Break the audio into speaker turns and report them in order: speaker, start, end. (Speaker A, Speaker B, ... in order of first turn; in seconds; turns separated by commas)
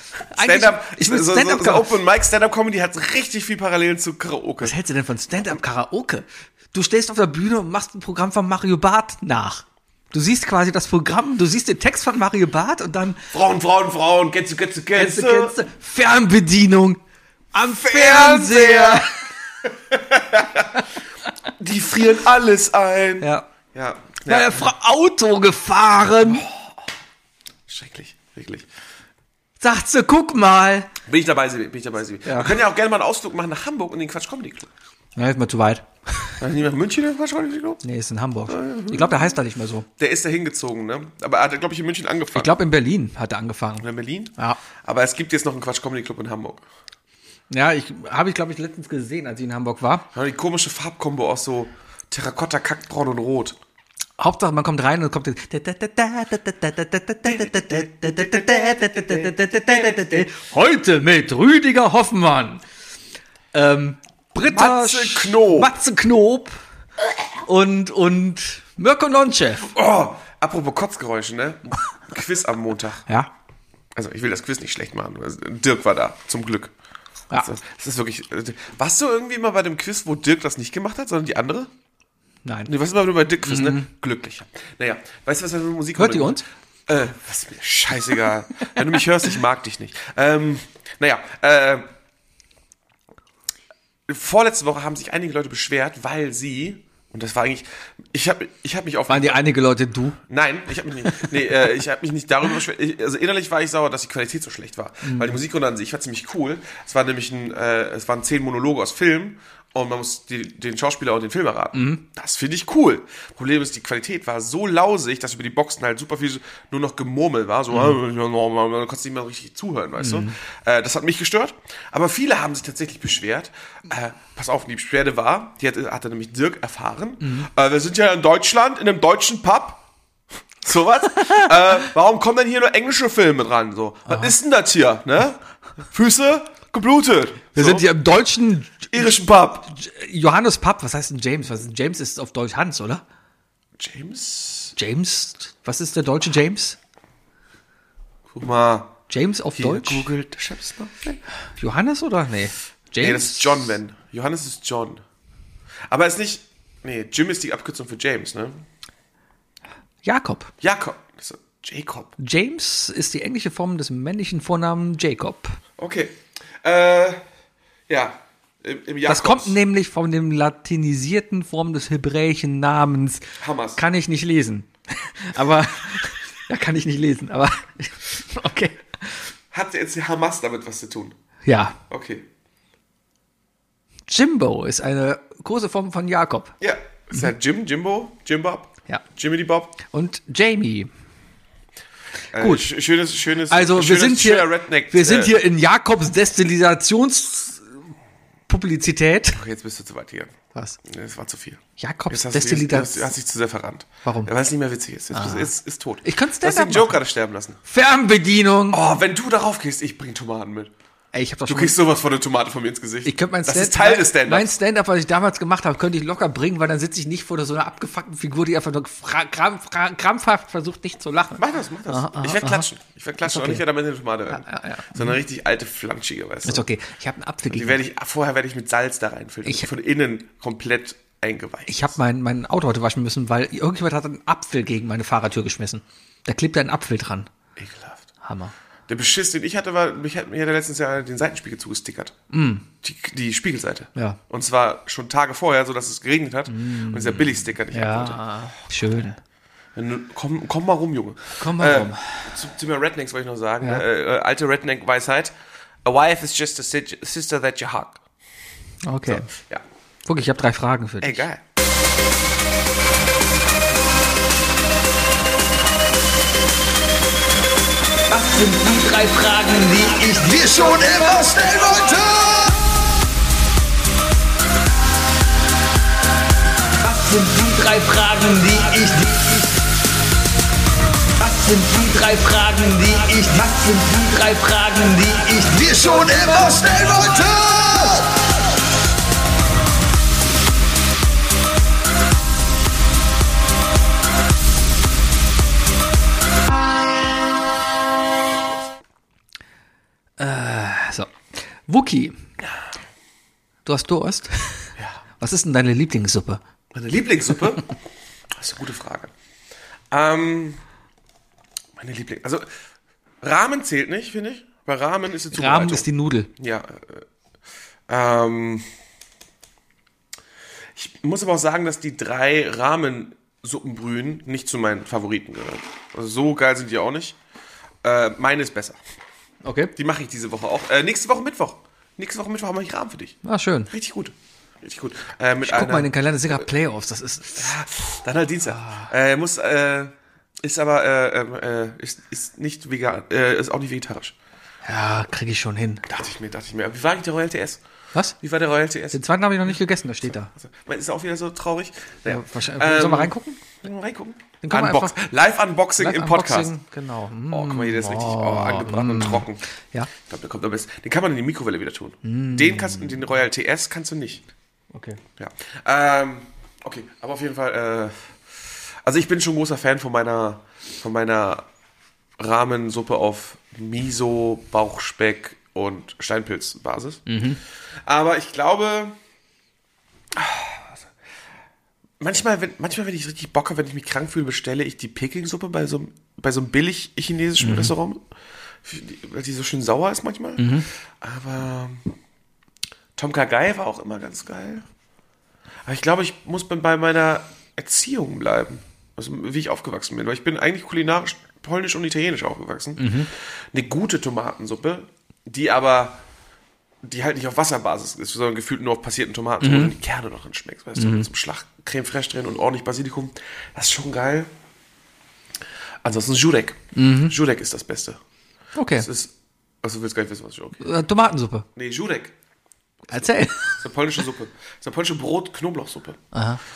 Speaker A: 0.3-1.9, Speaker B: 0.4-4.8, Speaker A: 4.6-13.3, Speaker B: 13.3-15.6, Speaker A: 14.9-17.0, Speaker A: 17.5-19.3, Speaker B: 17.6-19.1, Speaker B: 19.6-20.8, Speaker B: 21.6-24.7, Speaker A: 23.2-23.5, Speaker A: 24.2-26.4, Speaker B: 26.2-26.8, Speaker B: 27.7-28.7, Speaker A: 29.6-30.9, Speaker B: 31.1-34.7, Speaker A: 32.2-32.5, Speaker A: 35.1-36.4, Speaker B: 36.4-37.8, Speaker A: 37.8-39.9, Speaker B: 38.5-39.4, Speaker B: 40.0-42.5, Speaker A: 42.3-44.6, Speaker B: 43.8-46.6, Speaker A: 47.5-50.1, Speaker B: 50.1-53.6, Speaker A: 54.2-62.6, Speaker B: 57.2-60.3, Speaker A: 63.5-66.6, Speaker B: 64.4-65.7, Speaker A: 67.4-69.7, Speaker B: 69.6-73.0, Speaker B: 73.9-76.7, Speaker B: 77.4-81.7, Speaker A: 82.4-82.7, Speaker B: 82.7-91.9, Speaker A: 83.4-83.9, Speaker A: 86.0-86.4, Speaker B: 94.1-99.4, Speaker A: 99.1-100.2, Speaker B: 100.3-129.8, Speaker A: 101.0-101.5, Speaker A: 105.0-105.4, Speaker A: 111.7-112.0, Speaker A: 120.0-120.3, Speaker A: 127.2-127.5, Speaker B: 130.6-137.9, Speaker A: 134.1-134.3, Speaker A: 137.6-139.1, Speaker B: 138.9-139.7, Speaker A: 139.7-143.0, Speaker B: 143.8-144.7, Speaker A: 144.8-146.8, Speaker B: 148.3-149.0, Speaker A: 149.1-150.1, Speaker B: 149.6-151.2, Speaker A: 151.6-153.7, Speaker B: 153.0-155.0, Speaker B: 155.9-158.6, Speaker A: 160.0-160.5, Speaker B: 160.6-162.1, Speaker A: 162.2-165.6, Speaker B: 165.8-167.2, Speaker B: 167.9-169.6, Speaker A: 169.1-179.3, Speaker B: 173.4-173.8, Speaker B: 179.5-181.2, Speaker A: 181.4-181.8, Speaker B: 181.9-182.3, Speaker A: 184.1-186.5, Speaker B: 186.6-189.8, Speaker A: 189.9-190.9, Speaker B: 192.3-195.4, Speaker A: 192.3-192.7, Speaker A: 193.5-197.7, Speaker A: 198.5-199.4, Speaker B: 199.3-207.6, Speaker A: 201.8-203.1, Speaker A: 204.0-204.3, Speaker A: 205.1-207.0, Speaker A: 207.7-208.8, Speaker B: 208.7-210.7, Speaker A: 211.1-211.8, Speaker B: 211.4-214.5, Speaker A: 213.0-222.7, Speaker B: 221.4-226.7, Speaker A: 223.2-223.6, Speaker A: 224.3-225.2, Speaker A: 226.4-227.8, Speaker B: 227.5-231.9, Speaker A: 231.7-237.3, Speaker B: 237.6-238.1, Speaker A: 238.2-238.5, Speaker B: 238.9-242.1, Speaker A: 242.3-242.7, Speaker B: 242.8-248.2, Speaker A: 243.9-244.2, Speaker A: 246.5-249.2, Speaker B: 249.7-255.3, Speaker A: 251.4-252.3, Speaker B: 255.8-258.0, Speaker A: 258.8-259.3, Speaker B: 259.1-259.6, Speaker A: 260.1-261.2, Speaker B: 261.0-261.4, Speaker C: 268.1-272.5, Speaker C: 276.8-279.5, Speaker C: 281.2-288.1, Speaker A: 300.2-302.2, Speaker A: 303.6-306.4, Speaker B: 306.7-307.7, Speaker B: 308.3-309.1, Speaker B: 309.9-310.6, Speaker B: 311.8-312.5, Speaker B: 313.2-317.1, Speaker A: 315.3-316.3, Speaker B: 317.9-318.6, Speaker B: 320.7-327.2, Speaker B: 327.8-328.8, Speaker A: 329.4-329.7, Speaker B: 329.8-333.2, Speaker A: 333.2-333.7, Speaker B: 333.7-336.0, Speaker A: 335.4-337.5, Speaker B: 337.3-344.1, Speaker A: 338.5-338.9, Speaker A: 344.6-345.8, Speaker B: 345.9-347.6, Speaker B: 348.2-356.5, Speaker A: 348.9-350.3, Speaker A: 352.1-353.4, Speaker A: 354.4-355.0, Speaker A: 355.8-359.9, Speaker B: 357.3-359.4, Speaker B: 359.9-364.2, Speaker A: 362.0-363.0, Speaker A: 364.7-365.0, Speaker B: 365.2-367.9, Speaker B: 368.8-371.4, Speaker B: 372.2-377.1, Speaker A: 377.1-377.4, Speaker B: 377.8-379.0, Speaker B: 380.1-380.9, Speaker B: 382.0-388.0, Speaker A: 387.4-387.7, Speaker B: 388.6-391.9, Speaker A: 390.4-390.7, Speaker B: 392.9-394.6, Speaker B: 395.6-406.0, Speaker A: 402.8-403.1, Speaker B: 406.8-414.3, Speaker A: 409.4-409.7, Speaker A: 410.8-411.1, Speaker B: 415.8-418.0, Speaker A: 416.7-417.1, Speaker A: 418.6-418.9, Speaker B: 418.8-420.6, Speaker A: 420.6-421.4, Speaker B: 421.6-422.1, Speaker A: 422.9-423.6, Speaker B: 423.6-426.0, Speaker A: 426.1-426.4